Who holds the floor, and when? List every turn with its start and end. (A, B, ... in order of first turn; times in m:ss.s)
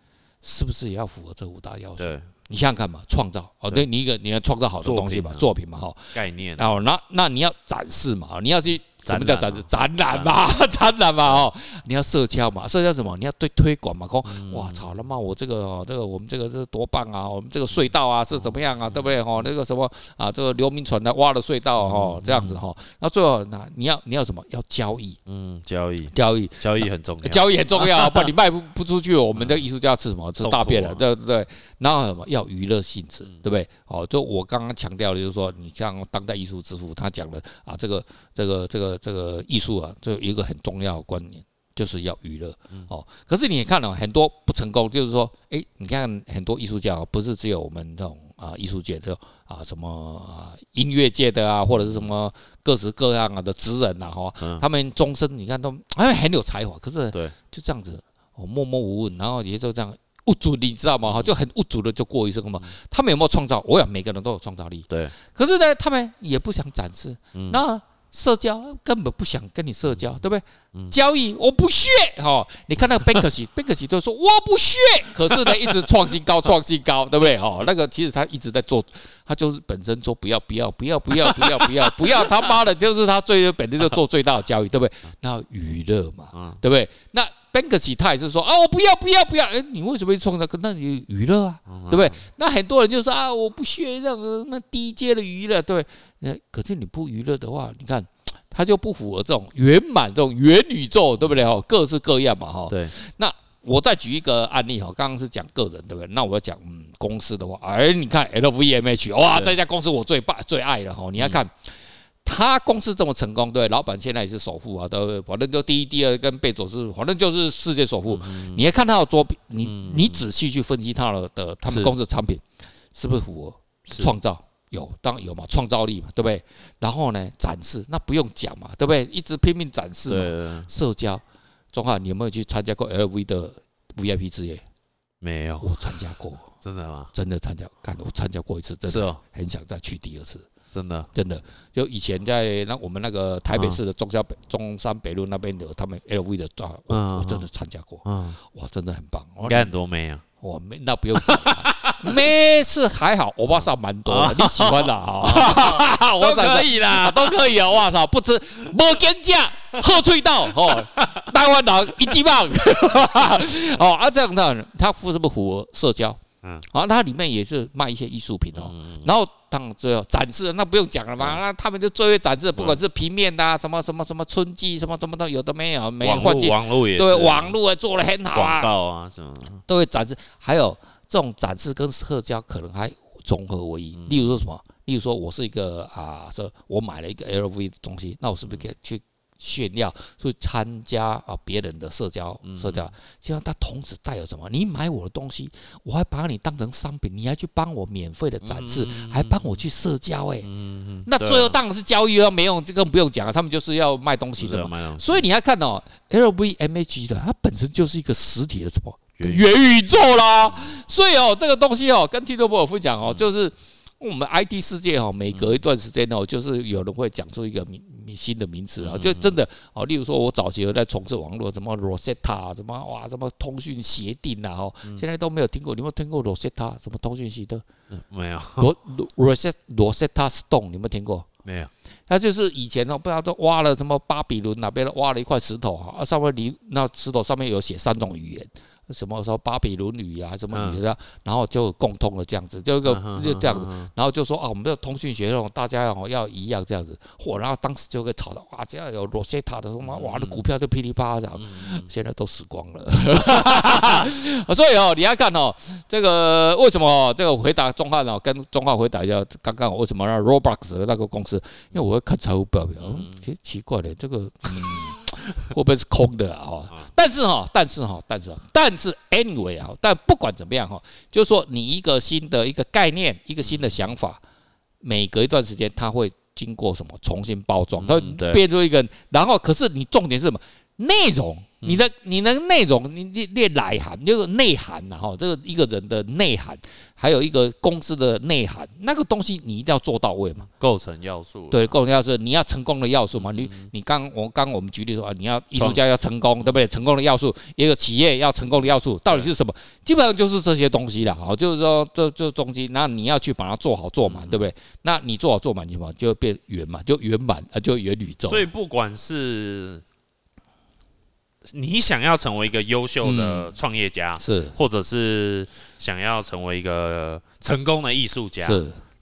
0:00.4-0:25.2 A
0:02.0-0:02.3 B
0:04.8-0:05.5 B
0:06.1-0:06.7 B
0:09.0-0:10.3 B
0:14.3-0:14.9 B
0:18.3-0:19.2 B
0:21.8-0:22.6 B
0:25.3-0:28.3 B
0:26.1-1:51.7 A
0:29.4-0:29.6 B
0:30.4-0:31.0 B
0:51.7-0:52.1 B
1:04.9-1:05.2 B
1:07.3-1:07.6 B
1:21.2-1:22.2 B
1:26.3-1:26.6 B
1:31.7-1:32.2 B
1:42.7-1:42.9 B
1:52.2-2:02.4 A
1:58.1-1:58.6 B
1:59.6-2:00.2 B
2:01.7-2:01.9 B
2:02.9-2:14.6 A
2:10.1-2:10.7 B
2:15.2-2:15.8 B
2:15.6-2:16.5 A
2:16.6-2:17.1 B
2:17.1-2:20.5 A
2:18.9-2:19.2 B
2:20.7-2:21.1 B
2:21.2-2:29.7 A
2:23.5-2:23.8 B
2:26.9-2:27.5 B
2:28.0-2:28.4 B
2:29.4-2:30.2 B
2:30.4-2:58.7 A
2:31.2-2:32.1 B
2:34.1-2:37.7 B
2:40.5-2:41.2 B
2:48.6-2:49.1 B
2:56.0-2:57.6 B
2:58.3-2:59.6 B
2:59.7-3:20.5 A
3:04.0-3:04.4 B
3:12.4-3:12.9 B
3:18.4-3:19.6 B
3:20.4-3:21.6 B
3:21.0-3:47.6 A
3:24.4-3:25.2 B
3:29.2-3:29.4 B
3:30.5-3:30.8 B
3:35.3-3:35.6 B
3:38.8-3:39.4 B
3:47.9-3:48.7 B
3:48.6-3:51.3 A
3:51.4-3:51.7 B
3:52.1-4:34.2 A
4:00.5-4:00.8 B
4:02.8-4:03.9 B
4:09.8-4:10.4 B
4:11.4-4:11.8 B
4:22.8-4:23.2 B
4:33.4-4:33.7 B
4:34.8-4:50.5 A
4:37.8-4:38.4 B
4:50.5-4:51.8 B
4:51.5-5:08.5 A
4:53.2-4:53.7 B
4:55.5-4:55.8 B
5:04.0-5:04.5 B
5:08.3-5:09.8 B
5:11.5-5:18.6 B
5:13.0-5:13.5 A
5:14.2-5:14.6 A
5:18.4-5:18.8 A